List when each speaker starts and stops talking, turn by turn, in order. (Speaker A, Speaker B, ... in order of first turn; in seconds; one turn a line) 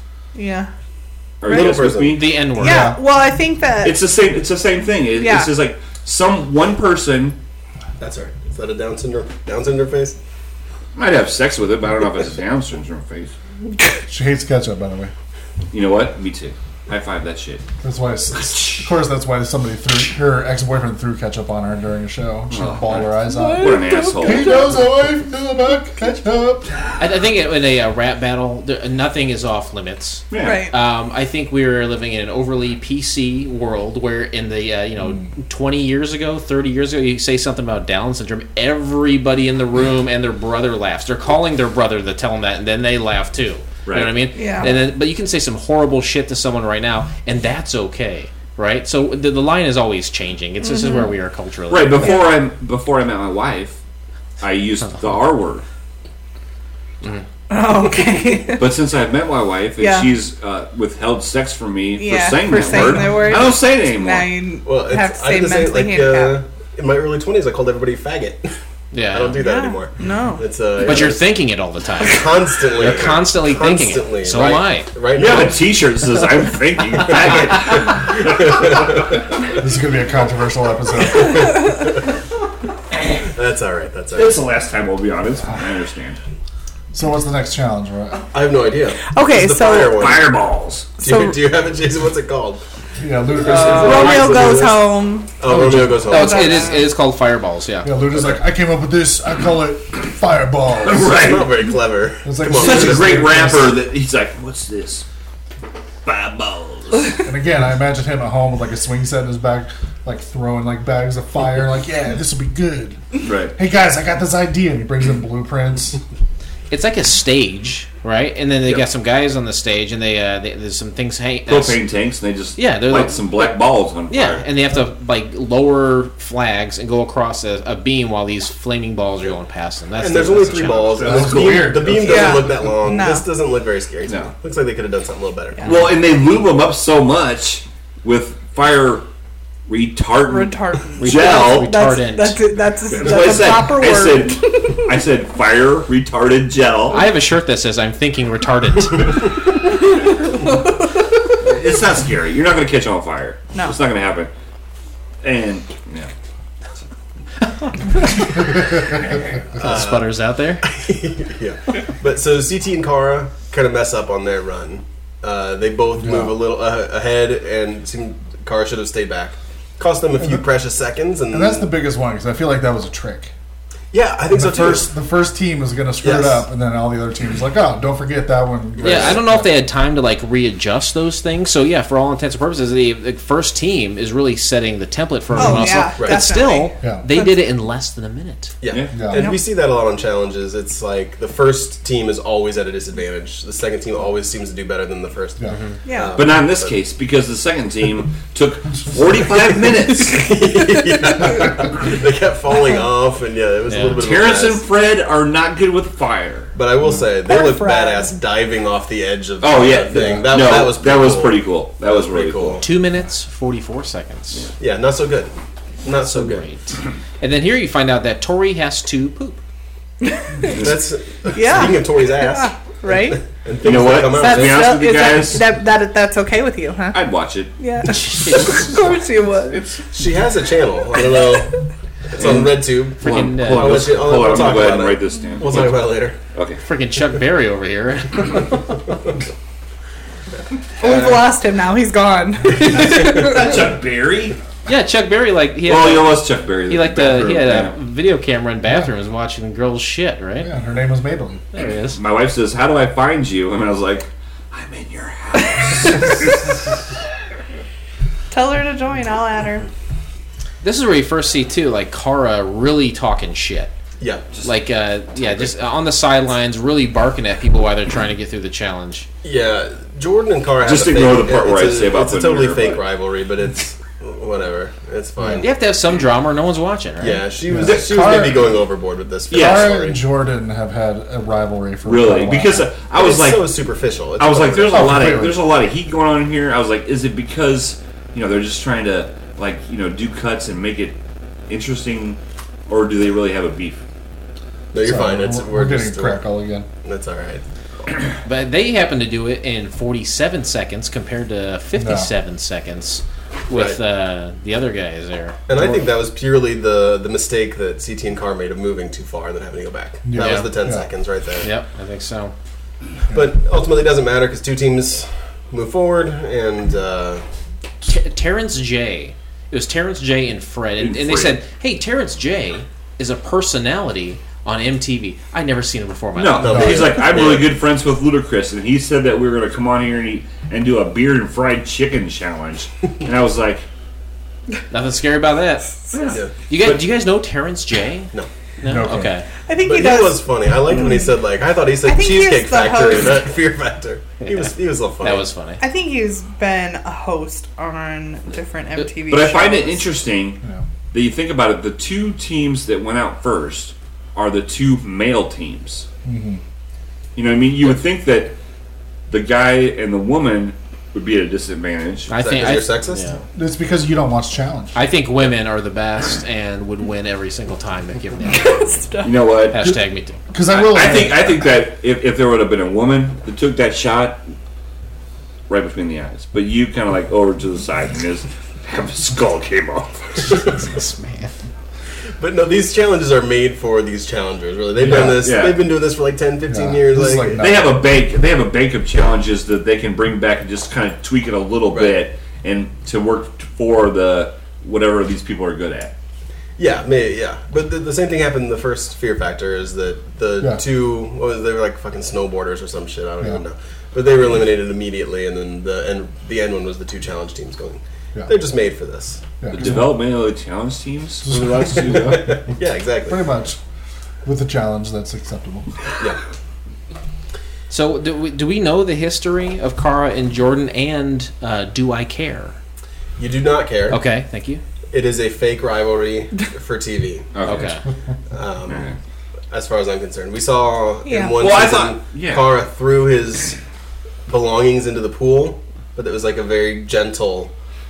Speaker A: 0.3-0.7
Speaker B: 1.4-2.4
Speaker A: 1.5-1.8
Speaker C: 1.5-2.2
Speaker D: 2.1-3.0
Speaker A: 2.5-4.0
Speaker E: 2.6-3.0
Speaker B: 3.8-7.4
Speaker A: 5.2-5.5
Speaker C: 8.0-10.2
Speaker B: 11.0-13.3
Speaker E: 14.1-15.1
Speaker B: 15.7-17.6
Speaker E: 17.8-26.7
Speaker B: 18.5-18.8
Speaker B: 22.5-24.7
Speaker A: 23.3-24.8
Speaker D: 27.0-52.2
Speaker B: 30.3-30.7
Speaker A: 30.4-30.7
Speaker B: 43.9-44.3
Speaker A: 44.4-44.7
Speaker A: 50.6-51.1
Speaker B: 51.7-53.8
Speaker B: 54.4-55.6
Speaker A: 57.5-58.8
Speaker B: 58.6-64.3
Speaker A: 59.8-60.1
Speaker A: 62.0-66.4
Speaker C: 64.7-71.3
Speaker D: 68.9-69.4
Speaker A: 69.3-70.4
Speaker D: 70.8-74.9
Speaker C: 72.0-75.8
Speaker B: 75.2-79.0
Speaker C: 78.2-78.9
Speaker E: 79.5-81.7
Speaker C: 81.2-82.0
Speaker C: 83.2-84.4
Speaker B: 84.2-86.2
Speaker E: 86.9-88.2
Speaker C: 88.3-90.3
Speaker A: 89.1-90.2
Speaker B: 89.7-90.9
Speaker C: 91.0-92.6
Speaker A: 91.0-91.4
Speaker E: 93.0-94.5
Speaker C: 93.3-96.8
Speaker D: 93.6-94.5
Speaker A: 93.7-95.3
Speaker E: 95.4-96.4
Speaker D: 96.1-98.0
Speaker A: 96.1-96.9
Speaker E: 97.8-101.4
Speaker B: 100.8-101.5
Speaker C: 101.1-103.6
Speaker E: 102.2-103.8
Speaker B: 102.5-105.0
Speaker B: 106.0-107.2
Speaker E: 107.2-116.0
Speaker B: 113.2-113.5
Speaker D: 116.7-121.8
Speaker B: 121.5-124.5
Speaker D: 122.6-123.5
Speaker D: 124.1-131.1
Speaker C: 130.0-135.9
Speaker B: 130.9-132.3
Speaker E: 131.0-132.4
Speaker A: 132.0-133.3
Speaker B: 134.1-134.3
Speaker B: 135.6-139.1
Speaker B: 139.7-141.8
Speaker A: 140.3-144.9
Speaker D: 141.0-142.4
Speaker B: 142.9-147.1
Speaker D: 146.9-149.3
Speaker A: 150.3-150.8
Speaker B: 151.4-154.3
Speaker A: 153.5-153.8
Speaker B: 155.2-156.1
Speaker D: 159.6-160.7
Speaker C: 159.6-171.7
Speaker E: 166.0-166.4
Speaker E: 171.3-173.3
Speaker C: 173.9-174.9
Speaker E: 174.3-179.6
Speaker C: 176.0-176.4
Speaker C: 178.8-179.2
Speaker D: 178.8-188.6
Speaker E: 185.3-185.8
Speaker A: 185.4-187.4
Speaker C: 186.0-186.4
Speaker C: 188.6-196.8
Speaker B: 188.7-189.1
Speaker E: 188.9-189.3
Speaker A: 189.2-189.4
Speaker A: 195.9-196.2
Speaker B: 196.2-200.4
Speaker C: 200.0-204.7
Speaker D: 203.7-204.0
Speaker B: 203.9-206.5
Speaker C: 206.6-212.7
Speaker A: 207.3-208.1
Speaker B: 209.4-212.6
Speaker E: 209.9-210.2
Speaker D: 212.6-214.5
Speaker C: 214.6-215.3
Speaker C: 215.8-216.4
Speaker D: 216.0-219.4
Speaker A: 220.1-220.6
Speaker B: 220.5-220.7
Speaker C: 220.5-224.8
Speaker A: 221.3-223.2
Speaker B: 223.6-225.5
Speaker A: 223.9-227.1
Speaker B: 226.9-227.6
Speaker A: 227.6-229.6
Speaker D: 227.8-228.9
Speaker B: 229.5-229.8
Speaker C: 229.9-231.6
Speaker C: 232.1-236.2
Speaker B: 232.2-236.6
Speaker D: 233.0-234.0
Speaker D: 236.6-238.8
Speaker A: 240.8-243.6
Speaker B: 242.8-244.4
Speaker D: 244.7-250.5
Speaker B: 245.7-247.8
Speaker E: 250.4-251.5
Speaker D: 251.5-252.0
Speaker B: 251.6-256.6
Speaker A: 258.3-259.7
Speaker D: 260.6-263.7
Speaker C: 264.0-264.3
Speaker D: 264.4-269.1
Speaker C: 269.2-275.5
Speaker B: 270.6-272.8
Speaker E: 275.2-275.4
Speaker D: 275.4-277.2
Speaker C: 277.0-280.0
Speaker E: 277.5-278.7
Speaker B: 277.7-278.3
Speaker B: 279.3-279.8
Speaker E: 279.3-282.7
Speaker B: 281.9-283.5
Speaker C: 282.9-285.2
Speaker B: 284.2-291.0
Speaker E: 284.7-285.4
Speaker B: 291.5-293.8
Speaker C: 294.7-296.2
Speaker E: 294.8-296.7
Speaker C: 296.8-297.4
Speaker D: 298.2-305.4
Speaker E: 301.8-302.1
Speaker C: 303.5-303.8
Speaker C: 305.5-311.5
Speaker E: 305.5-305.9
Speaker E: 310.1-310.9
Speaker D: 310.2-310.5
Speaker D: 311.4-312.3
Speaker C: 313.1-317.2
Speaker D: 317.9-326.8
Speaker B: 320.8-321.4
Speaker B: 326.1-333.7
Speaker C: 326.4-327.6
Speaker E: 326.4-327.0
Speaker D: 334.7-335.8
Speaker A: 335.8-336.2
Speaker D: 336.5-339.3
Speaker B: 336.5-336.9
Speaker E: 338.6-339.1
Speaker A: 339.5-341.1
Speaker C: 339.6-345.3
Speaker A: 341.8-343.3
Speaker D: 344.2-345.6
Speaker A: 345.6-349.9
Speaker B: 349.1-350.4
Speaker B: 350.9-355.9
Speaker E: 356.1-356.4
Speaker B: 357.2-358.4
Speaker B: 359.1-362.6
Speaker D: 362.1-363.2
Speaker C: 362.1-363.1
Speaker E: 363.4-364.8
Speaker D: 364.8-368.7
Speaker A: 368.3-369.2
Speaker B: 369.0-369.8
Speaker D: 369.5-370.2
Speaker E: 370.3-371.5
Speaker B: 370.5-374.2
Speaker B: 375.5-380.6
Speaker D: 380.3-381.3
Speaker C: 382.2-387.5
Speaker E: 384.8-385.3
Speaker B: 384.8-385.7
Speaker E: 386.5-387.9
Speaker B: 387.4-395.9
Speaker C: 391.7-392.0
Speaker C: 396.6-409.2
Speaker E: 409.4-410.0
Speaker B: 409.5-412.4
Speaker E: 411.2-412.4
Speaker C: 411.6-413.3
Speaker E: 413.1-413.6
Speaker E: 414.2-415.8
Speaker D: 417.7-422.6
Speaker C: 423.2-424.0
Speaker D: 423.9-424.6
Speaker C: 424.9-427.3
Speaker B: 427.3-427.8
Speaker D: 427.4-427.8
Speaker C: 428.3-428.9
Speaker B: 428.7-429.0
Speaker C: 429.5-433.6
Speaker A: 431.1-431.4
Speaker B: 431.4-432.6
Speaker C: 434.3-437.5